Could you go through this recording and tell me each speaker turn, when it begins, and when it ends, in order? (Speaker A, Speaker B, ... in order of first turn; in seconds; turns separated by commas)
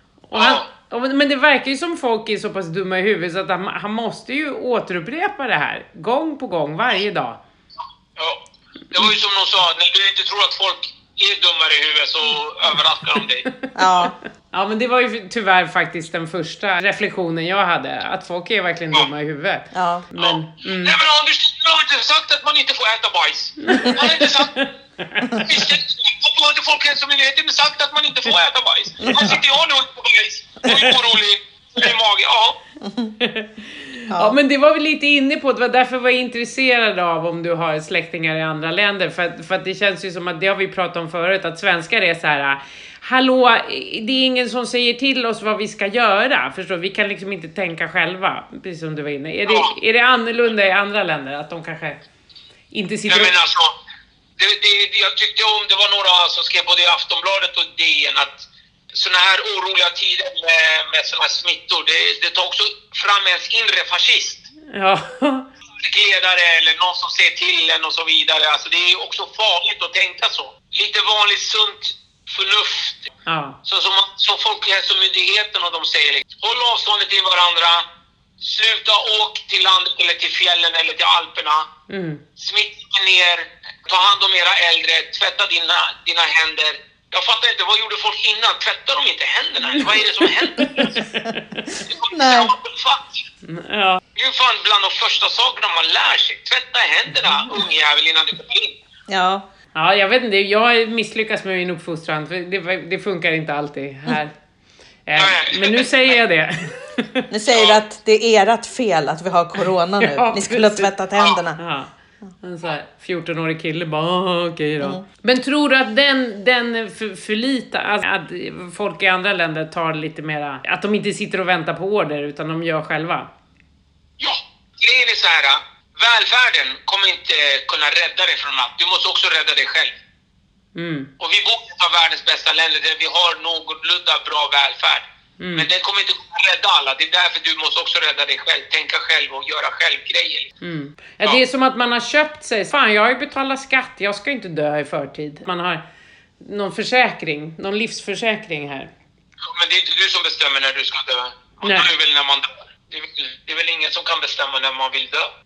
Speaker A: 0.3-7.4, Speaker B: 0.3-0.6, Speaker B: 8.9-13.5, Speaker A: 13.6-21.0, Speaker C: 13.7-14.1, Speaker C: 19.7-20.1, Speaker B: 20.2-24.6, Speaker A: 23.6-25.5, Speaker B: 25.4-32.6, Speaker C: 29.0-29.3, Speaker C: 32.8-33.1, Speaker A: 33.2-52.0, Speaker C: 34.1-34.4, Speaker A: 52.7-53.3, Speaker B: 53.1-53.7, Speaker B: 54.4-64.5, Speaker A: 64.7-65.5, Speaker B: 65.8-73.1, Speaker A: 73.2-73.6, Speaker B: 73.7-77.8, Speaker B: 78.4-81.7, Speaker A: 81.9-82.2, Speaker B: 82.4-91.0, Speaker A: 89.8-91.8, Speaker B: 91.8-93.2, Speaker C: 92.0-92.5, Speaker A: 93.4-94.0, Speaker B: 94.1-98.8, Speaker C: 99.1-99.4, Speaker A: 99.7-104.3, Speaker A: 105.0-107.3, Speaker B: 105.2-105.9, Speaker C: 107.3-111.6, Speaker B: 107.5-107.8, Speaker A: 110.0-110.9, Speaker A: 111.6-123.3, Speaker B: 124.2-129.9, Speaker A: 130.7-131.1, Speaker B: 131.2-140.5, Speaker A: 135.4-135.7, Speaker A: 140.6-145.8, Speaker A: 146.4-148.9, Speaker B: 149.4-155.3, Speaker A: 151.6-151.9